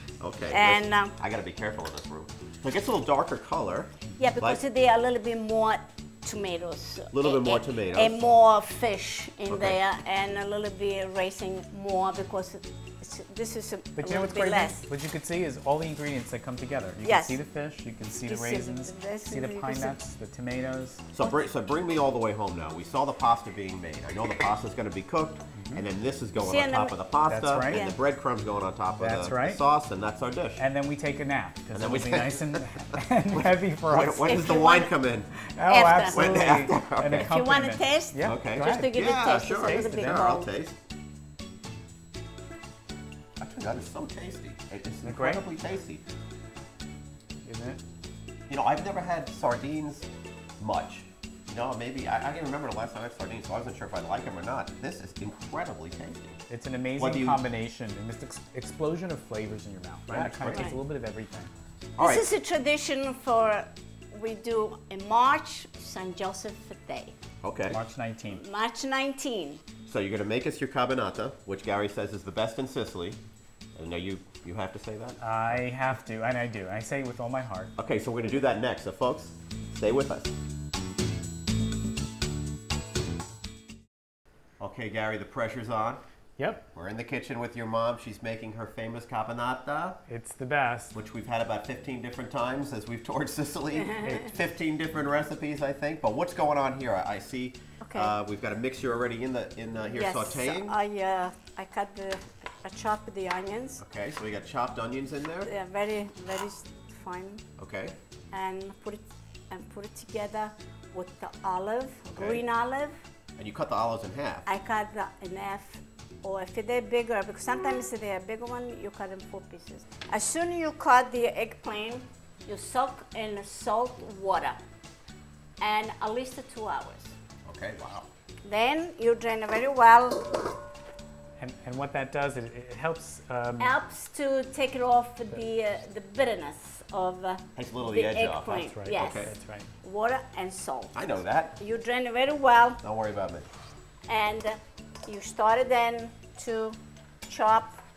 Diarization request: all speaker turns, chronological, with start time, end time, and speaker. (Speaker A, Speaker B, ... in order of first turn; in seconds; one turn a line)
Speaker A: 0.2-4.6
Speaker B: 0.5-1.1
Speaker B: 4.2-14.8
Speaker A: 7.1-8.3
Speaker A: 9.5-9.8
Speaker C: 13.9-21.0
Speaker B: 17.0-17.4
Speaker B: 18.3-20.0
Speaker A: 21.1-30.6
Speaker C: 25.6-25.8
Speaker B: 26.4-27.0
Speaker C: 27.3-27.9
Speaker B: 27.6-28.0
Speaker C: 29.0-29.6
Speaker C: 30.6-34.4
Speaker A: 31.7-35.3
Speaker B: 34.2-34.9
Speaker C: 35.4-40.2
Speaker B: 35.6-36.6
Speaker A: 36.1-37.4
Speaker B: 37.1-40.5
Speaker A: 38.2-40.7
Speaker A: 43.4-46.0
Speaker C: 45.0-45.5
Speaker C: 47.4-47.8
Speaker A: 48.5-50.1
Speaker A: 50.6-56.4
Speaker C: 56.5-61.5
Speaker A: 57.0-57.5
Speaker A: 60.1-60.7
Speaker B: 60.5-60.8
Speaker A: 62.0-62.3
Speaker B: 62.0-67.1
Speaker A: 67.4-67.8
Speaker C: 67.7-68.4
Speaker B: 68.3-69.6
Speaker A: 69.8-73.2
Speaker A: 73.8-75.2
Speaker C: 75.2-77.7
Speaker A: 77.8-80.3
Speaker A: 84.6-86.0
Speaker C: 86.4-86.6
Speaker A: 86.7-90.0
Speaker C: 90.1-90.9
Speaker A: 90.9-100.8
Speaker B: 93.7-94.2
Speaker B: 97.8-98.1
Speaker B: 99.9-103.8
Speaker A: 103.8-105.5
Speaker B: 105.5-107.4
Speaker A: 107.6-107.9
Speaker B: 108.3-113.0
Speaker A: 112.0-112.4
Speaker A: 113.4-114.5
Speaker B: 114.5-124.6
Speaker B: 125.6-127.1
Speaker A: 127.5-128.1
Speaker B: 128.4-130.4
Speaker C: 131.4-133.7
Speaker B: 133.6-141.1
Speaker A: 137.6-139.3
Speaker C: 138.5-139.7
Speaker A: 140.9-141.6
Speaker B: 141.6-142.8
Speaker A: 142.8-143.5
Speaker B: 144.1-147.8